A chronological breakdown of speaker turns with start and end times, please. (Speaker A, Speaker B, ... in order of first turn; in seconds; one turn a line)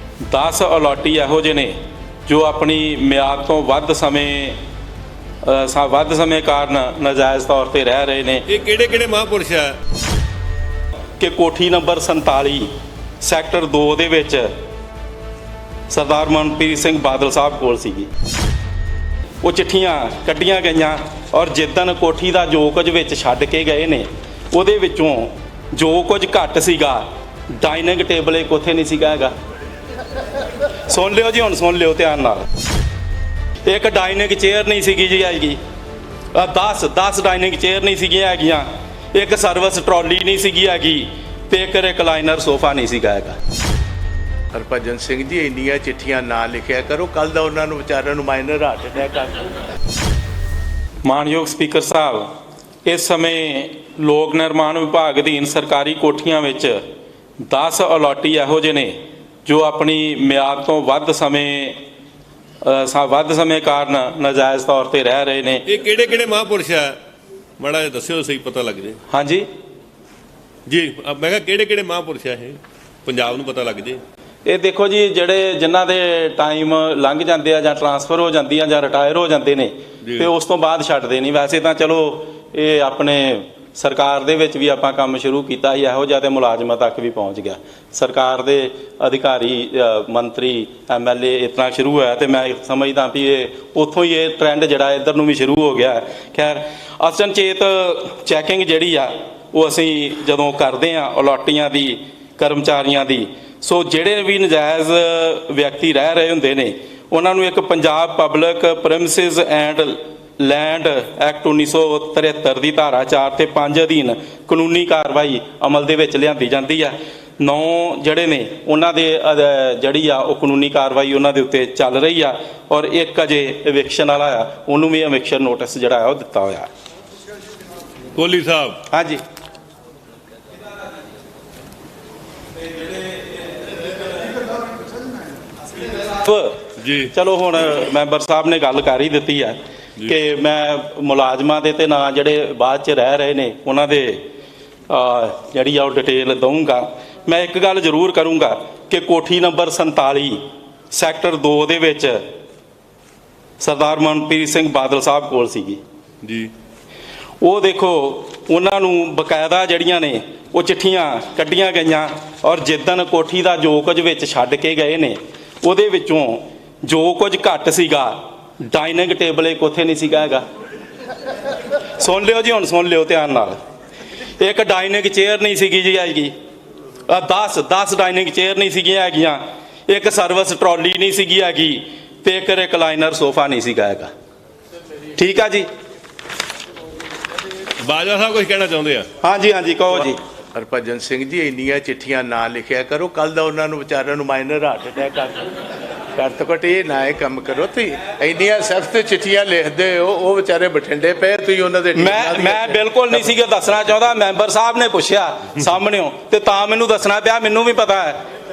Speaker A: 0.3-1.8
Speaker A: 2.3-4.6
Speaker A: 5.4-8.4
Speaker B: 8.5-9.8
Speaker A: 11.2-14.5
Speaker A: 15.9-18.1
Speaker A: 19.4-29.4
Speaker A: 30.9-32.5
Speaker A: 33.7-35.6
Speaker A: 36.3-43.4
Speaker C: 44.5-49.5
Speaker A: 51.0-52.3
Speaker A: 52.9-56.8
Speaker A: 57.5-61.8
Speaker A: 62.6-65.7
Speaker B: 65.7-67.0
Speaker B: 67.6-69.0
Speaker A: 69.1-69.5
Speaker B: 70.7-74.0
Speaker A: 74.5-126.7
Speaker B: 80.0-80.3
Speaker B: 128.2-128.8
Speaker A: 128.9-129.2
Speaker A: 135.8-144.2
Speaker B: 136.8-137.1
Speaker A: 144.9-152.2
Speaker A: 153.6-155.8
Speaker B: 156.2-156.5
Speaker A: 157.4-170.4
Speaker A: 172.0-173.6
Speaker A: 174.4-176.3
Speaker A: 177.1-184.1
Speaker A: 185.2-185.7
Speaker B: 187.8-189.1
Speaker A: 189.2-190.2
Speaker C: 190.5-195.5
Speaker C: 196.1-202.8
Speaker A: 201.9-208.2